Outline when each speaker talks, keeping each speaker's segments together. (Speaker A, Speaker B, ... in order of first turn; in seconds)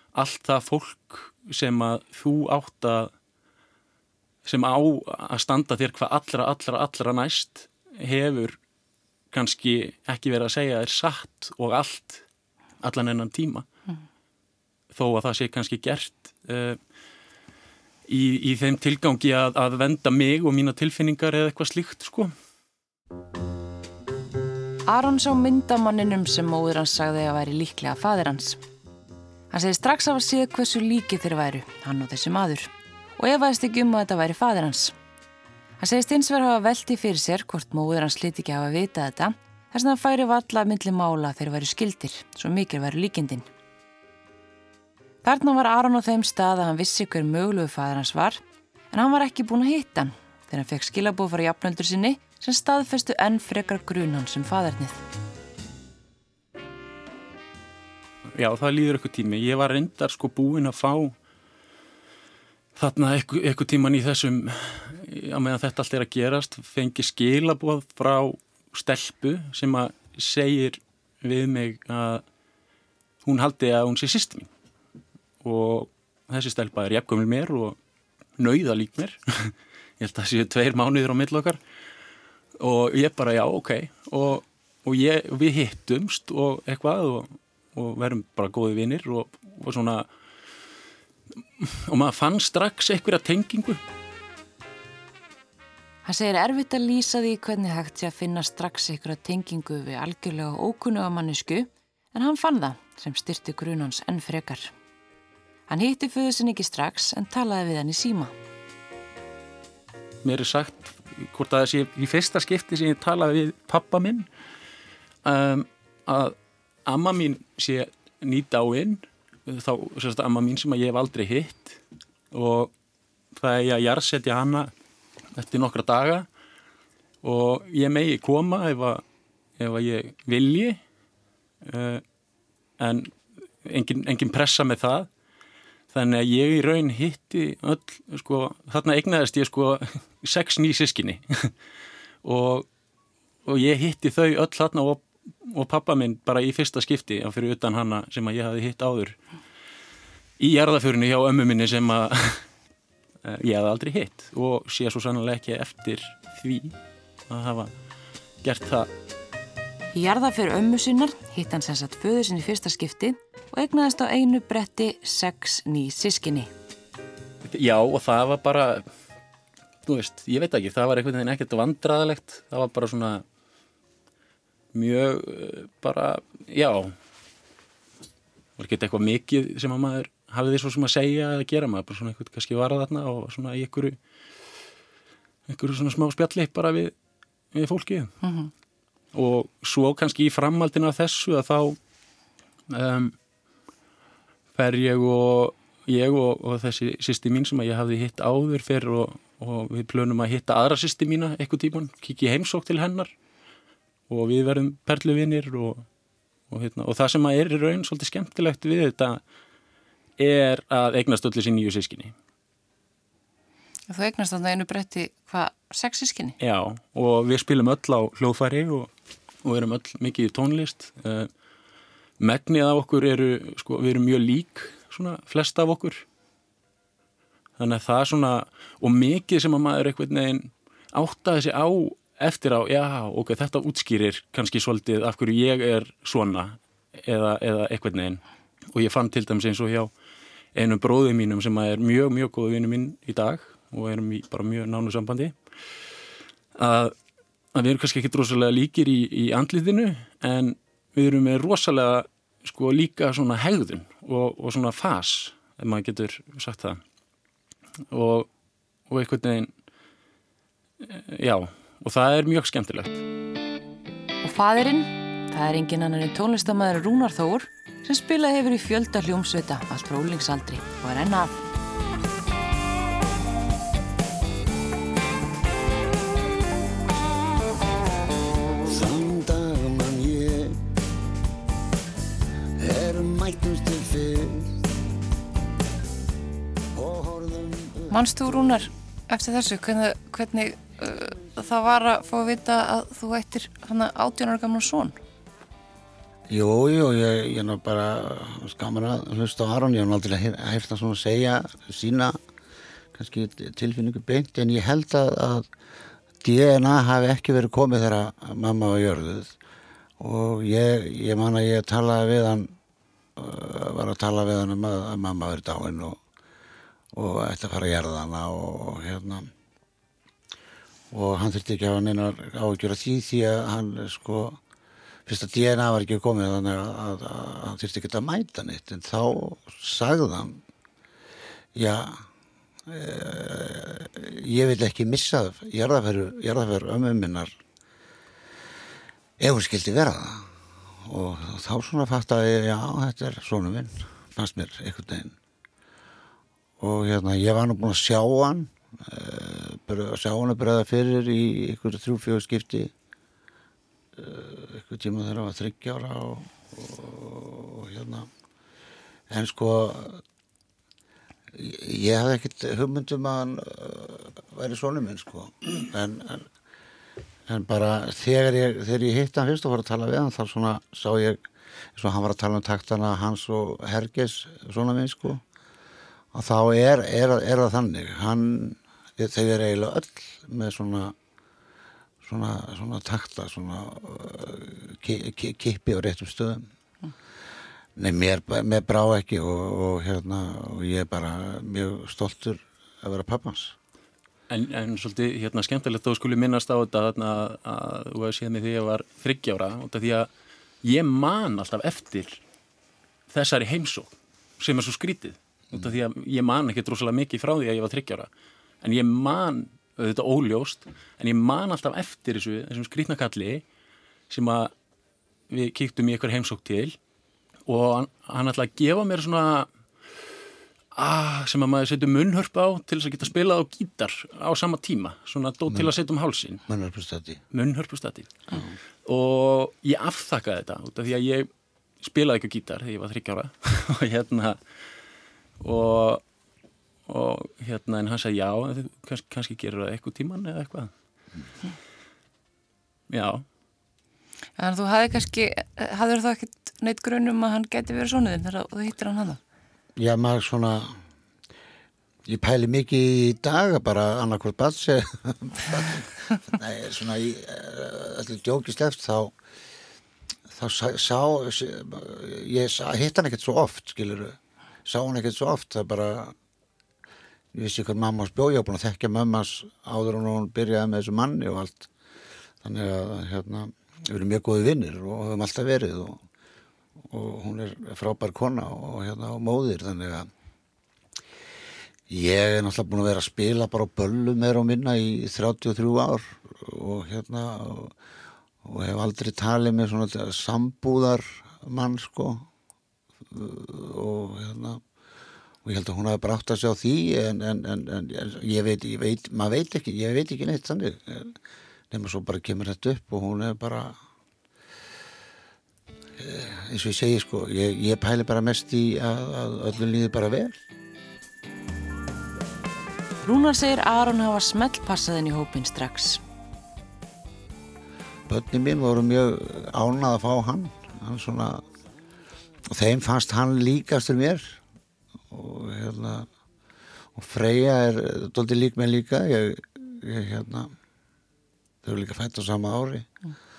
Speaker A: 0.1-3.1, 4.5-8.6, 9.3-12.2, 12.8-13.7, 14.9-16.8, 18.1-22.3, 58.3-61.1, 62.8-72.2, 73.2-74.5, 75.4-77.8, 78.4-81.6, 82.6-90.1, 91.6-93.8, 110.2-114.3, 115.2-116.3, 116.9-121.8, 122.3-122.7, 123.3-124.7, 125.3-126.3, 127.2-129.0, 129.6-130.8, 131.6-132.0, 132.8-135.1, 135.9-141.5, 142.2-142.7, 143.5-149.2, 150.4-152.5, 153.2-156.8, 157.3-157.7, 158.4-158.9, 167.4-168.9, 169.9-173.2, 174.7-176.9, 178.6-184.0, 185.5-186.9, 187.5-188.2, 189.1-191.8, 192.7-193.2, 194.6-203.1, 204.1-205.9, 206.5-209.2, 210.2-212.2, 216.4-218.9, 219.4-221.3, 222.2-226.1, 227.6-238.2, 238.7-239.9, 240.6-245.3, 246.6-246.9, 247.5-256.8, 257.9-258.3, 258.9-259.5, 260.8-263.0, 394.3-400.1, 400.6-402.2, 403.1-408.1, 408.6-413.4, 414.1-414.5, 415.3-416.8, 417.5-419.5, 420.8-426.4, 427.3-428.4, 428.9-434.4, 435.4-436.0, 436.9-440.7, 442.9-443.2
Speaker B: 24.9-28.6, 29.5-35.0, 35.8-43.5, 45.2-55.0, 96.0-104.7, 105.7-108.3, 159.9-166.5, 188.2-188.5, 213.9-216.4, 264.2-271.4, 287.9-295.0, 444.4-449.2, 513.0-516.0
Speaker C: 278.7-280.6, 282.6-284.5, 286.8-287.9, 296.3-302.2, 302.9-305.5, 306.2-309.3, 310.0-312.5, 313.2-316.0, 316.9-319.3, 320.9-324.4, 325.1-330.4, 331.6-332.1, 332.7-337.4, 339.2-340.3, 340.9-345.1, 346.6-352.7, 354.0-358.1, 359.1-360.0, 361.3-366.3, 367.3-371.2, 371.8-375.2, 376.1-380.9, 382.0-386.5, 387.8-393.6, 426.5-427.2, 449.8-450.8, 452.1-459.1, 460.3-466.1, 467.3-471.7, 472.4-476.0, 476.9-480.1, 481.9-487.8, 488.4-492.3, 493.1-494.6, 495.4-501.2, 501.7-503.8, 506.0-510.4, 518.1-521.4, 522.5-524.4, 525.1-526.1, 527.0-530.5, 531.6-533.0